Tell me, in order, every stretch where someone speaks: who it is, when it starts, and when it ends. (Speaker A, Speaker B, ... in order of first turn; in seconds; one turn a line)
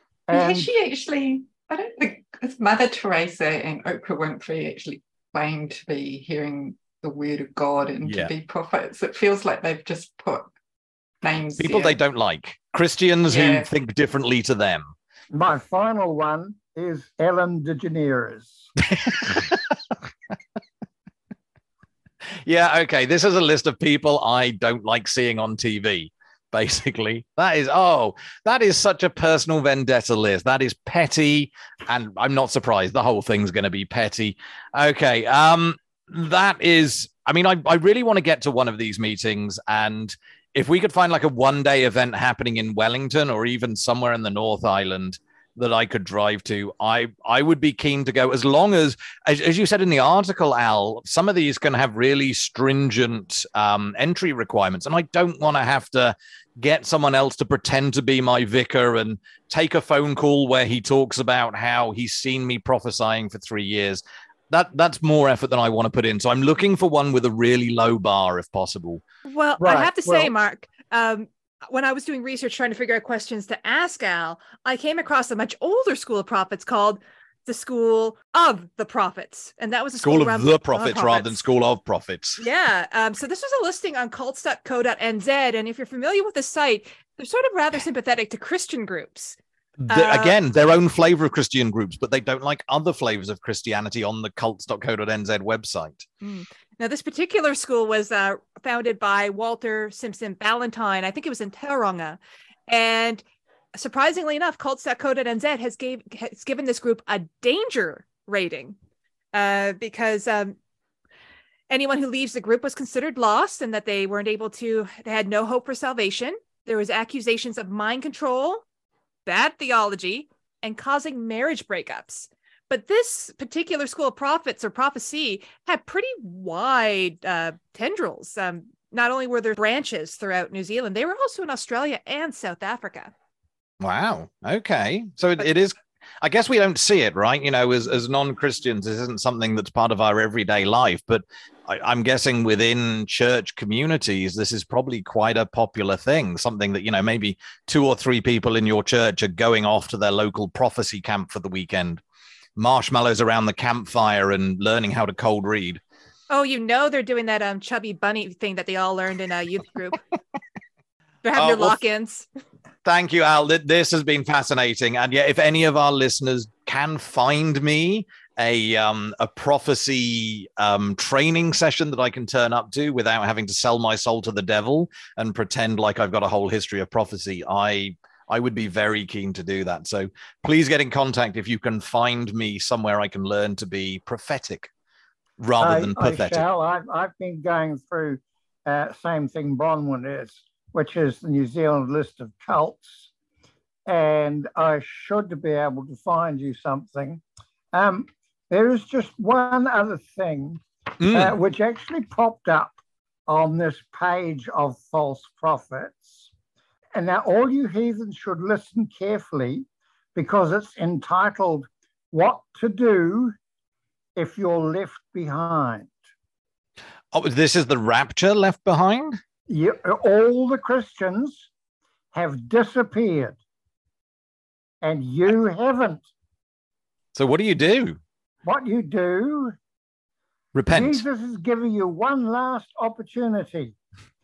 Speaker A: 0.3-0.7
Speaker B: 0.3-10.5
Speaker C: 8.0-8.3
Speaker B: 11.2-12.0
Speaker C: 11.6-14.9
Speaker B: 13.3-13.7
Speaker A: 15.3-18.7
Speaker C: 18.9-19.7
Speaker C: 22.4-69.0
Speaker D: 69.2-81.4
Speaker A: 69.6-70.3
Speaker C: 80.0-82.4
Speaker D: 82.4-89.4
Speaker C: 89.8-96.0
Speaker D: 89.9-90.4
Speaker D: 96.2-103.2
Speaker D: 103.7-108.8
Speaker D: 109.3-110.5
Speaker D: 111.7-118.6
Speaker D: 119.2-133.1
Speaker C: 133.8-152.0
Speaker C: 152.6-155.8
Speaker D: 156.3-160.0
Speaker D: 161.2-162.2
Speaker C: 161.3-161.8
Speaker C: 162.8-184.7
Speaker C: 185.4-186.4
Speaker A: 185.6-193.1
Speaker A: 193.8-202.7
Speaker C: 201.0-201.3
Speaker A: 203.3-206.3
Speaker A: 206.9-213.3
Speaker A: 214.2-215.9
Speaker C: 217.1-219.2
Speaker A: 219.5-221.5
Speaker A: 222.1-223.4
Speaker A: 224.8-226.1
Speaker C: 227.1-228.0
Speaker A: 228.4-229.6
Speaker C: 230.5-231.0
Speaker A: 230.7-233.8